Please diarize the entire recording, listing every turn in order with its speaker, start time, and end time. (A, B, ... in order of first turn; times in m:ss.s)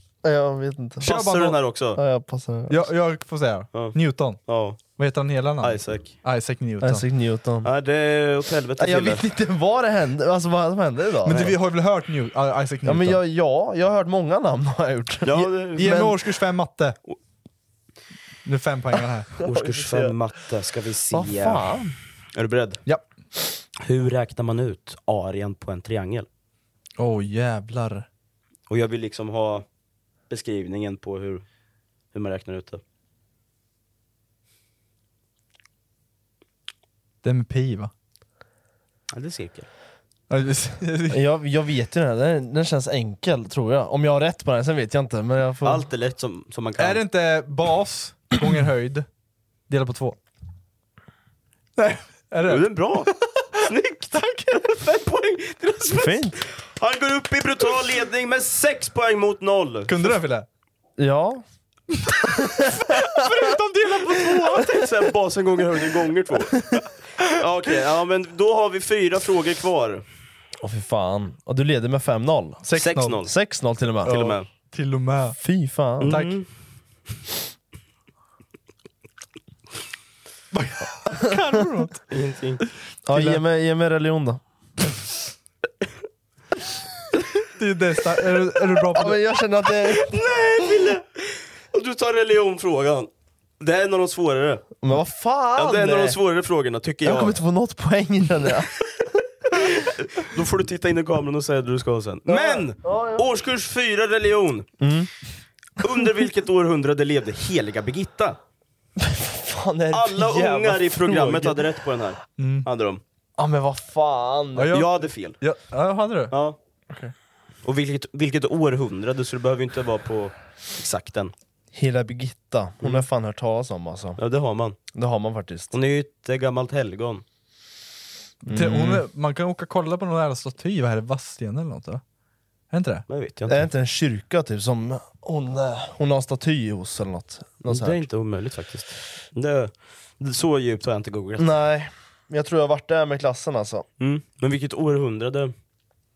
0:00.2-0:01.1 A
0:01.0-0:01.6 B
0:01.0-0:02.0 C
0:02.0-0:02.8 A
0:02.7-0:04.4 B
0:04.5-0:04.8 C
0:05.0-0:07.1 B
0:05.6-0:06.1 C
0:06.8-0:07.7 A
0:07.6-0:09.2 C
0:08.8-0:11.6 A
0:11.2-0:13.2 B
0:12.8-0:16.1 A
0:15.2-0:16.1 C
0:15.8-0:17.0 B
0:18.4-0:19.3 B
0:19.4-0:21.8 C
0:19.4-0:20.1 A
0:21.1-0:21.9 A
0:22.4-0:22.8 C
0:23.8-0:26.3 C
0:27.0-0:28.1 B
0:28.7-0:29.6 C
0:30.3-0:31.4 C
0:32.1-0:32.8 C
0:37.2-0:37.9 B
0:39.1-0:39.7 C
0:40.3-0:41.2 B
0:41.1-0:45.9 A
0:45.6-0:47.0 C
0:46.8-0:49.1 B
0:49.7-0:50.2 B
0:51.8-0:54.9 B
0:52.5-0:53.1 C
0:53.6-1:00.2 C
0:55.9-0:56.4 A
0:59.9-1:00.5 B
1:01.0-1:01.4 A
1:02.1-1:04.9 B
1:04.5-1:10.0 C
1:10.6-1:12.6 A
1:12.6-1:13.2 B
1:12.8-1:13.3 C
1:13.2-1:14.2 A
1:14.0-1:14.5 C
1:14.0-1:15.4 B
1:15.4-1:16.2 A
1:16.0-1:16.4 B
1:16.0-1:16.5 C
1:20.5-1:22.0 B
1:22.1-1:22.6 C
1:23.1-1:24.4 A
1:23.1-1:23.4 B
1:27.6-1:29.2 B
1:28.9-1:30.2 A
1:29.8-1:34.6 C
1:34.8-1:36.2 A
1:35.6-1:37.4 C
1:37.0-1:38.7 A
1:39.5-1:44.7 C
1:42.3-1:43.2 A
1:44.8-1:45.1 A
1:45.8-1:48.4 C
1:49.0-1:51.6 A
1:49.9-1:53.0 C
1:52.4-1:52.7 B
1:53.4-1:54.7 A
1:54.6-1:56.3 B
1:54.7-1:55.4 C
1:56.3-1:56.6 C
1:57.6-2:01.3 C
2:01.7-2:04.2 A
2:04.2-2:04.8 C
2:05.0-2:05.7 A
2:05.7-2:07.2 C
2:08.5-2:12.0 B
2:08.5-2:09.0 A
2:12.7-2:13.1 B
2:13.1-2:13.7 C
2:13.5-2:18.0 A
2:17.7-2:21.6 C
2:21.4-2:23.8 A
2:24.0-2:25.5 C